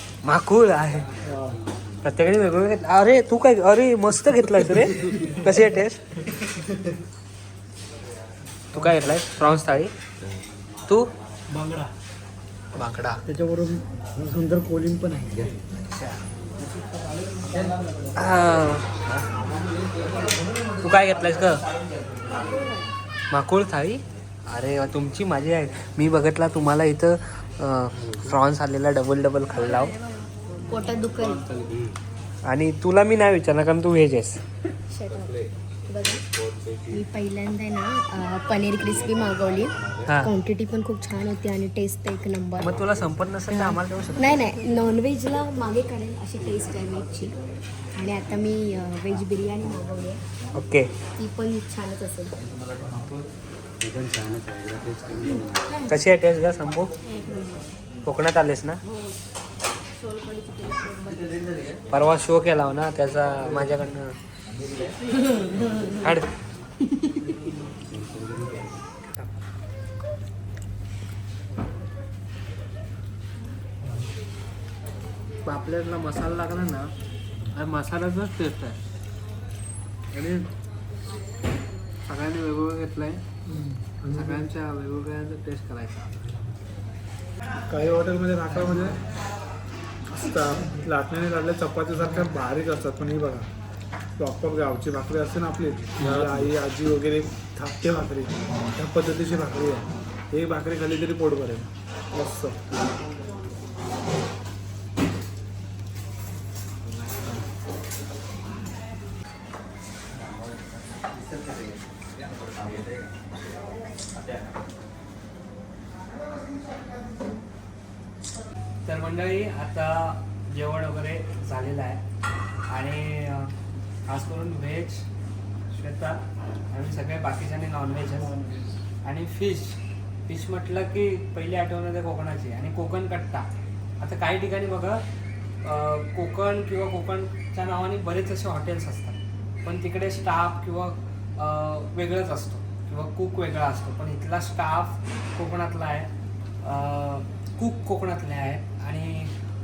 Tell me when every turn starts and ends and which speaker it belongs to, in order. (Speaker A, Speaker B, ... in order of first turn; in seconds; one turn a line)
Speaker A: 0.2-1.1
Speaker A: 2.0-6.0
Speaker B: 5.0-5.3
Speaker A: 8.7-9.9
Speaker B: 11.6-11.9
Speaker A: 12.8-13.2
Speaker C: 13.3-15.4
Speaker A: 18.2-19.2
Speaker A: 20.8-21.6
Speaker D: 22.5-22.8
Speaker A: 23.3-30.0
Speaker D: 30.7-31.4
Speaker B: 30.7-31.9
Speaker A: 32.5-34.4
Speaker D: 34.9-36.2
Speaker B: 35.1-35.5
Speaker B: 36.6-37.0
Speaker D: 36.9-42.7
Speaker A: 40.1-40.3
Speaker A: 42.6-44.6
Speaker D: 43.5-47.4
Speaker D: 48.0-50.2
Speaker A: 50.5-50.9
Speaker D: 51.2-52.4
Speaker A: 55.9-56.9
Speaker D: 57.1-57.6
Speaker A: 58.0-58.8
Speaker D: 60.5-60.9
Speaker A: 61.9-64.2
Speaker A: 66.0-66.3
Speaker A: 75.4-76.9
Speaker A: 77.5-78.8
Speaker A: 80.1-80.5
Speaker A: 82.1-83.2
Speaker C: 83.5-84.4
Speaker A: 84.1-86.1
Speaker C: 87.7-89.0
Speaker C: 90.1-93.5
Speaker C: 94.2-102.8
Speaker B: 96.0-96.5
Speaker A: 118.8-122.0
Speaker A: 122.7-123.5
Speaker A: 124.1-125.0
Speaker A: 125.7-128.3
Speaker C: 128.2-128.7
Speaker A: 129.0-133.5
Speaker A: 134.0-135.0
Speaker A: 135.6-146.1
Speaker A: 146.6-149.3